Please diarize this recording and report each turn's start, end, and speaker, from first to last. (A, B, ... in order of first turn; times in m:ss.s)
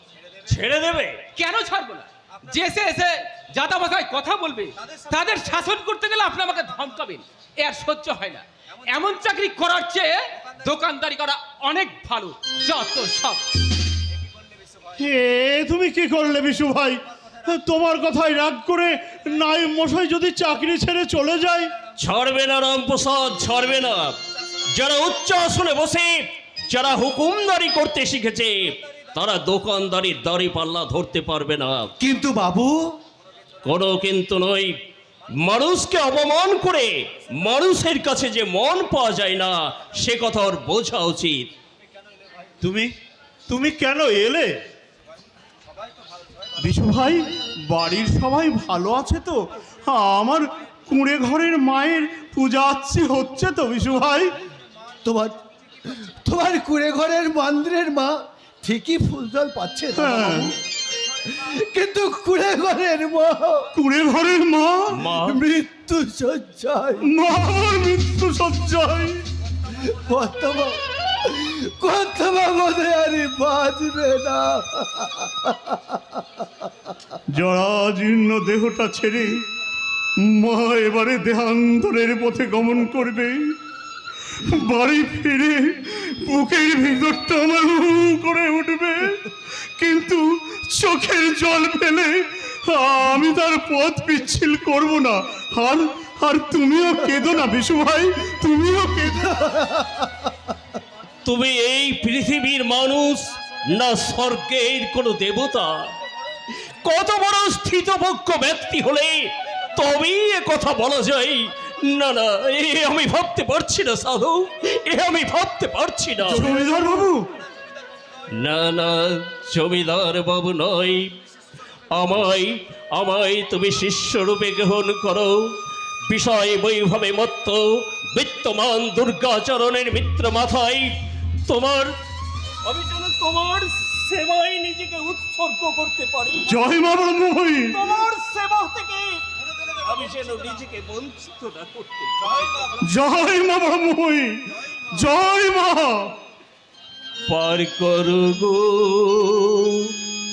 0:00.5-0:01.2 A
0:01.4-0:13.4 B
0:15.0-0:21.7 C
0:22.0-0:24.2 A
0:24.7-0:26.1 A
0:26.7-0:31.9 A
0:32.0-0:32.8 D
0:33.6-0:34.7 A
0:35.4-0:41.5 A
0:42.6-0:42.9 C
0:43.5-0:44.5 C
0:46.6-0:54.3 C
0:55.0-0:55.4 D
0:55.9-1:00.5 D
1:00.0-1:00.5 C
1:01.3-1:03.6 D
1:03.7-1:05.0 C
1:05.0-1:05.4 A
1:05.2-1:07.0 D
1:07.1-1:09.2 C
1:09.9-1:16.2 D
1:17.3-1:19.4 C
1:20.2-1:23.4 C
1:24.4-1:29.2 C
1:29.8-1:32.1 C
1:32.7-1:39.6 C
1:39.5-1:40.0 D
1:41.2-1:45.9 A
1:46.8-1:56.6 A
1:56.2-1:57.3 C
1:58.4-2:01.1 A
2:01.9-2:05.4 A
2:06.1-2:10.9 A
2:11.5-2:11.9 A
2:12.6-2:16.6 A
2:16.5-2:17.8 C
2:17.7-2:19.2 A
2:19.8-2:22.7 A
2:22.8-2:26.1 C
2:27.3-2:29.9 A